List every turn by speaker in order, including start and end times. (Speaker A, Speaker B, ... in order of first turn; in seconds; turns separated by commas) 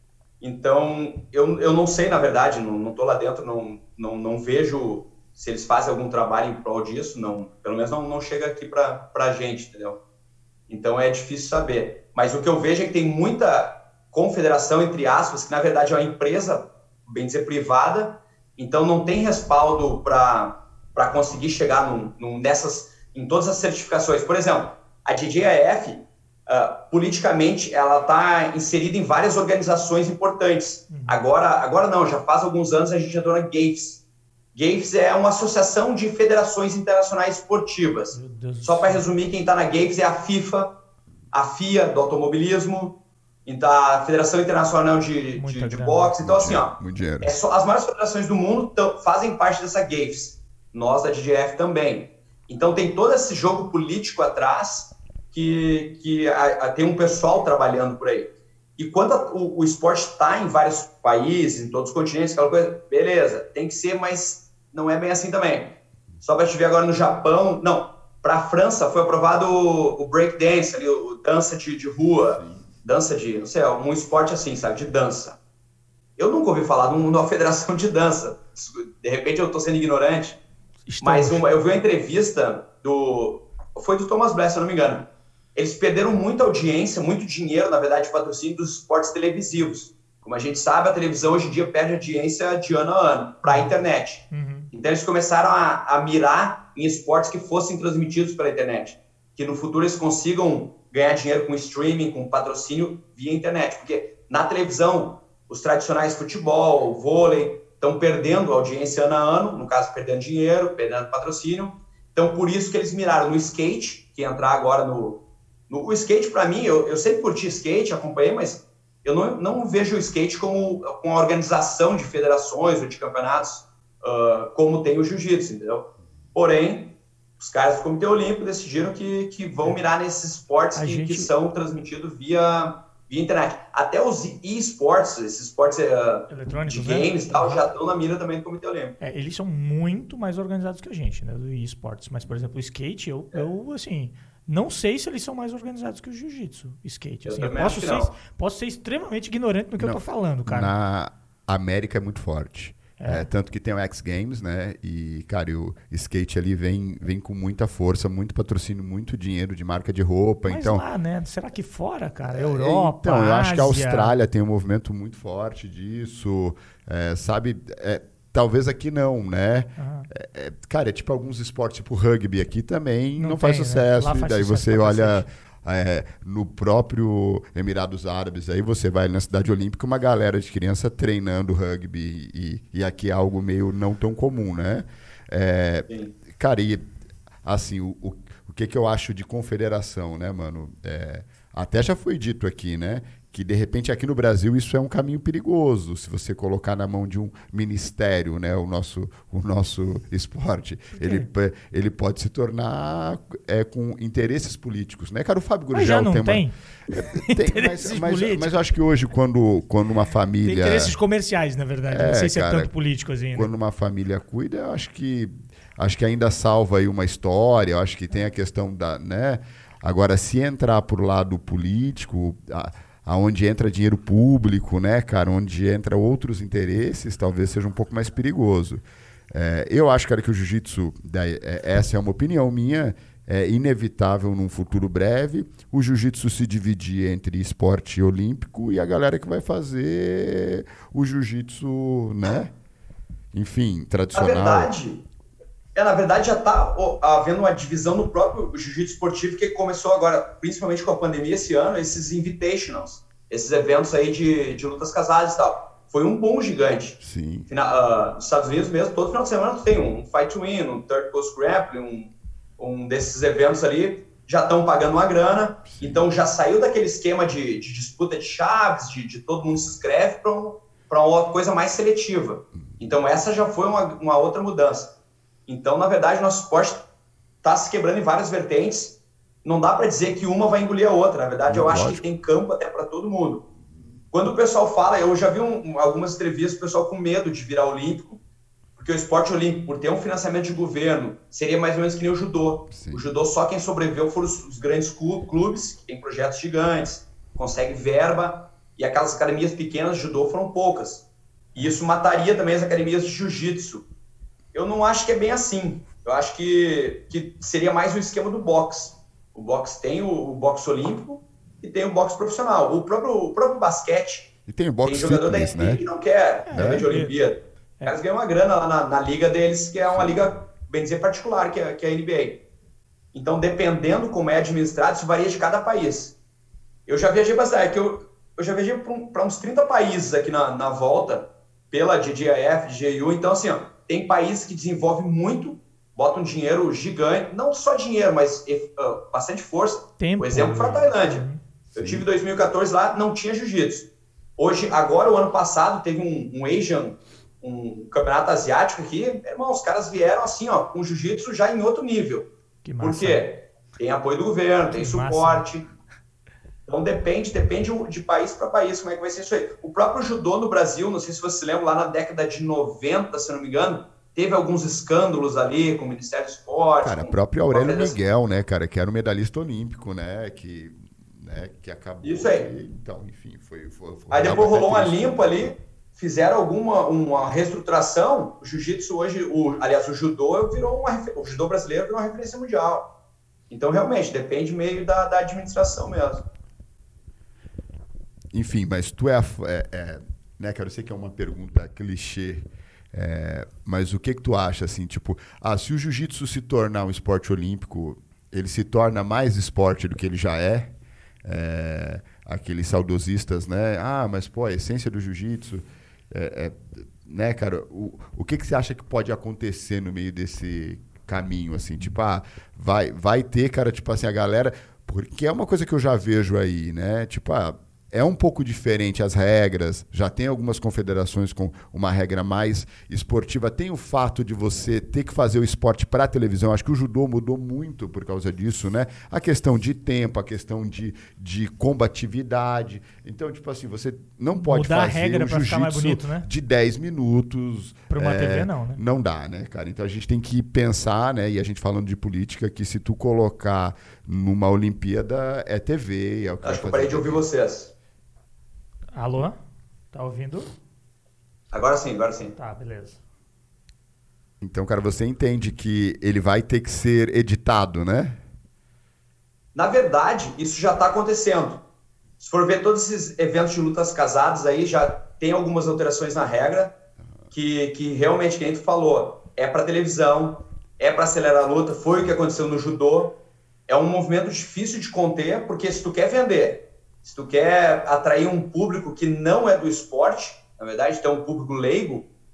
Speaker A: 0.4-10.0, Speaker A: 10.7-34.0, Speaker B: 30.9-31.2, Speaker A: 34.5-40.7, Speaker B: 38.1-39.0, Speaker A: 41.3-75.4, Speaker B: 45.4-46.1, Speaker C: 46.2-47.3, Speaker C: 72.4-72.7, Speaker A: 76.2-80.4, Speaker B: 80.9-81.5, Speaker A: 81.0-138.9, Speaker B: 94.3-94.7, Speaker B: 130.8-131.3, Speaker B: 136.3-137.7, Speaker B: 139.0-150.7, Speaker A: 147.3-148.2, Speaker C: 149.8-160.8, Speaker B: 153.0-153.3, Speaker B: 160.5-164.2, Speaker C: 162.3-186.8, Speaker B: 169.8-170.1, Speaker B: 173.2-175.3, Speaker A: 185.9-186.2, Speaker C: 187.4-211.0, Speaker B: 201.0-201.3, Speaker B: 205.7-208.6, Speaker B: 210.4-213.5, Speaker C: 211.9-212.7, Speaker C: 213.3-242.5, Speaker C: 243.3-244.7, Speaker A: 244.1-245.0, Speaker A: 245.8-275.0, Speaker C: 257.0-257.5, Speaker C: 265.7-266.0, Speaker A: 275.5-276.9, Speaker A: 277.4-283.4, Speaker C: 281.5-282.1, Speaker A: 284.1-288.2, Speaker A: 288.8-303.9, Speaker C: 292.7-293.0, Speaker A: 304.5-314.3, Speaker C: 314.5-315.8, Speaker A: 314.9-322.4, Speaker B: 316.5-317.1, Speaker C: 316.5-316.9, Speaker C: 319.9-320.3, Speaker A: 323.1-326.2, Speaker A: 326.9-352.3, Speaker B: 340.0-341.4, Speaker C: 341.8-342.1, Speaker B: 352.6-353.2, Speaker A: 352.8-355.7, Speaker B: 354.8-355.5, Speaker A: 356.7-368.0, Speaker C: 366.8-375.2, Speaker A: 372.0-372.5, Speaker A: 374.1-382.9, Speaker A: 383.5-386.3, Speaker C: 388.3-447.2, Speaker B: 434.4-436.3, Speaker B: 437.9-438.8, Speaker A: 446.4-447.7, Speaker B: 448.9-449.4, Speaker B: 449.9-450.5, Speaker A: 451.5-452.4, Speaker B: 452.4-453.0, Speaker C: 454.4-458.2, Speaker A: 459.6-461.6, Speaker A: 462.2-466.8, Speaker A: 467.3-482.1